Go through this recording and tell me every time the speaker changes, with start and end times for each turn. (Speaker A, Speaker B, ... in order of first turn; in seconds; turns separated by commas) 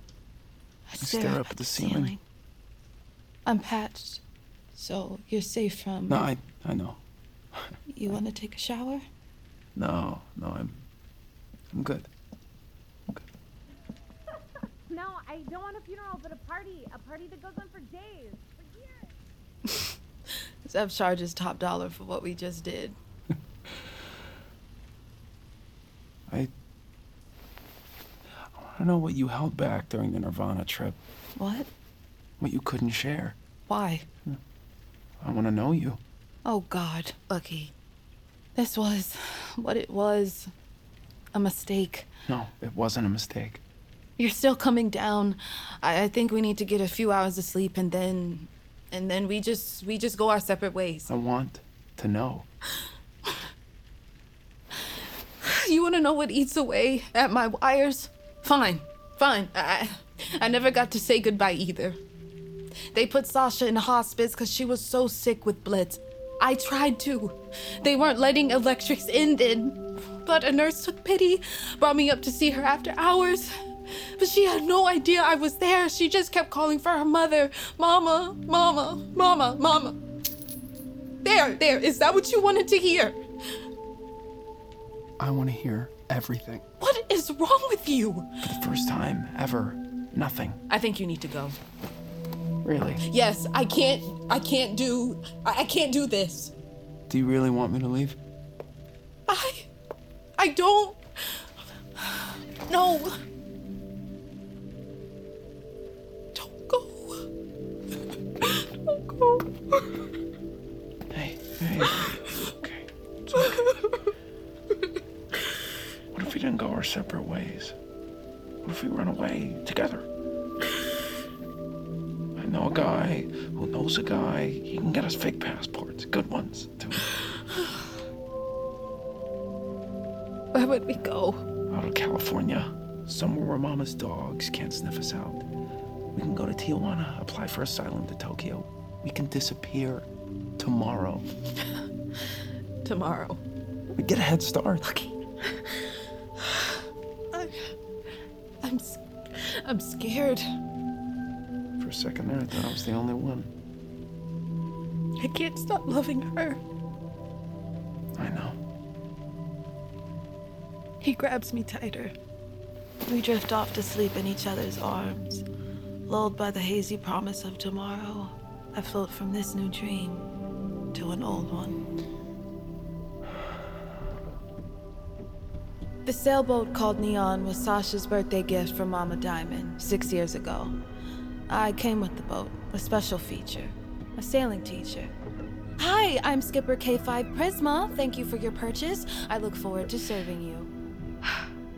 Speaker A: 0.9-2.2, Speaker B: 1.0-2.1, Speaker A: 3.5-4.2, Speaker A: 4.7-6.2, Speaker B: 6.1-7.0, Speaker A: 7.9-9.0, Speaker B: 9.8-10.8, Speaker B: 11.7-12.1, Speaker C: 14.9-19.1, Speaker A: 20.6-23.0, Speaker B: 28.4-31.0, Speaker A: 31.4-31.7, Speaker B: 32.4-33.4, Speaker A: 33.7-34.0, Speaker B: 35.2-36.0, Speaker A: 36.4-37.7, Speaker A: 38.5-40.5, Speaker A: 41.3-42.1, Speaker B: 42.3-43.6, Speaker A: 44.2-51.1, Speaker B: 51.1-52.5, Speaker A: 55.4-62.0, Speaker A: 62.9-73.5, Speaker A: 74.2-80.0, Speaker A: 81.2-83.2, Speaker B: 85.2-86.6, Speaker A: 86.8-88.3, Speaker B: 88.4-90.6, Speaker A: 90.7-91.6, Speaker B: 92.6-93.0, Speaker A: 93.0-96.5, Speaker B: 97.1-98.2, Speaker A: 99.3-99.7, Speaker A: 100.4-101.4, Speaker A: 102.0-103.1, Speaker A: 106.3-107.2, Speaker A: 108.4-109.8, Speaker B: 111.1-113.5, Speaker A: 113.3-114.0, Speaker B: 116.1-117.7, Speaker B: 118.6-120.0, Speaker B: 122.3-127.0, Speaker A: 130.5-131.4, Speaker B: 131.7-135.4, Speaker B: 136.1-140.1, Speaker B: 140.6-141.3, Speaker A: 142.8-143.4, Speaker B: 143.9-144.9, Speaker A: 144.8-146.8, Speaker A: 147.3-147.7, Speaker A: 148.6-150.4, Speaker B: 151.8-153.5, Speaker A: 155.2-156.6, Speaker B: 158.2-158.6, Speaker A: 161.0-162.1, Speaker A: 163.0-165.4, Speaker A: 166.1-170.2, Speaker A: 170.9-171.8, Speaker A: 176.1-180.7, Speaker A: 181.5-185.1, Speaker A: 185.8-190.7